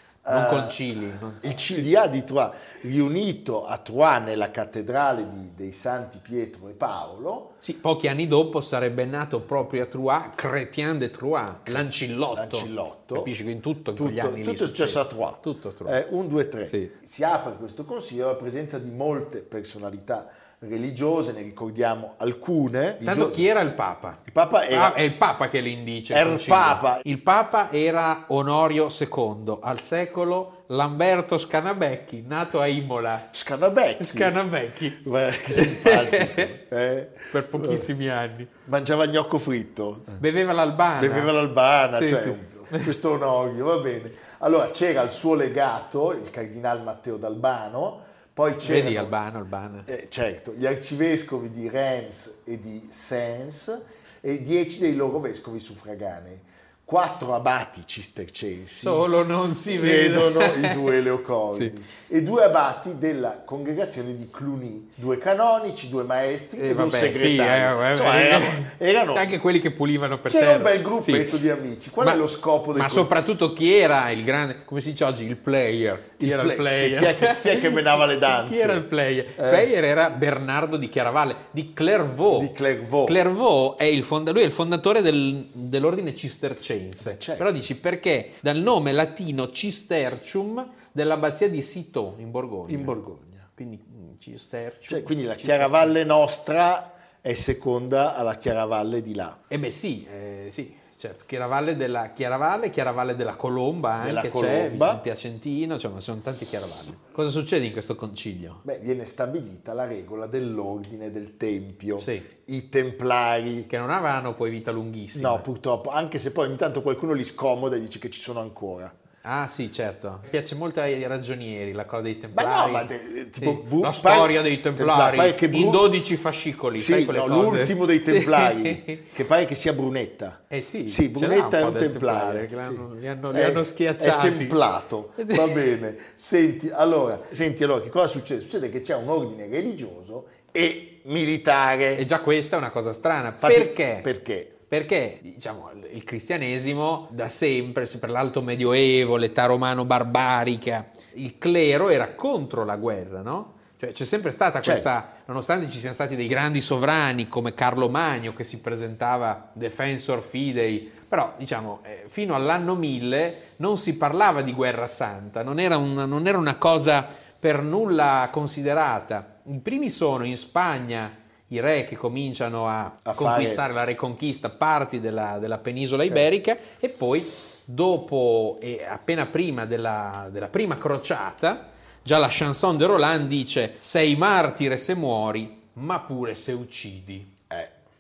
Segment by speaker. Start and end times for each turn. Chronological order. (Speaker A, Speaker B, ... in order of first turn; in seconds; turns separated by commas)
Speaker A: 0.2-0.8, Speaker B: 0.2-1.5, Speaker A: 1.4-7.6, Speaker B: 7.6-16.0, Speaker A: 11.7-13.3, Speaker A: 14.0-23.5, Speaker B: 16.7-16.9, Speaker B: 23.0-33.3, Speaker A: 24.2-25.0, Speaker A: 26.1-27.0, Speaker A: 33.3-37.9, Speaker B: 34.0-36.5, Speaker B: 37.3-38.5, Speaker A: 38.6-40.2, Speaker B: 40.2-41.3, Speaker A: 41.0-49.1, Speaker B: 41.9-42.9, Speaker B: 48.6-49.9, Speaker A: 49.9-59.1, Speaker B: 58.8-60.9, Speaker A: 59.7-69.3, Speaker B: 66.6-71.4, Speaker A: 70.3-73.1, Speaker B: 72.0-82.5, Speaker A: 76.2-78.8, Speaker A: 79.4-79.7, Speaker A: 82.3-83.2, Speaker B: 83.0-93.0, Speaker A: 87.0-87.5, Speaker A: 92.7-93.5, Speaker B: 93.6-96.0, Speaker A: 94.9-99.4, Speaker B: 99.5-108.6, Speaker A: 104.0-105.0, Speaker A: 108.6-113.7, Speaker B: 112.0-112.3, Speaker B: 113.7-115.5, Speaker A: 115.2-119.0, Speaker B: 119.2-129.1, Speaker A: 122.3-126.0, Speaker A: 126.8-142.0, Speaker B: 130.5-134.6, Speaker B: 135.2-135.6, Speaker B: 141.9-144.1, Speaker A: 143.4-144.6, Speaker B: 144.7-187.3, Speaker A: 154.6-154.9, Speaker A: 173.0-173.6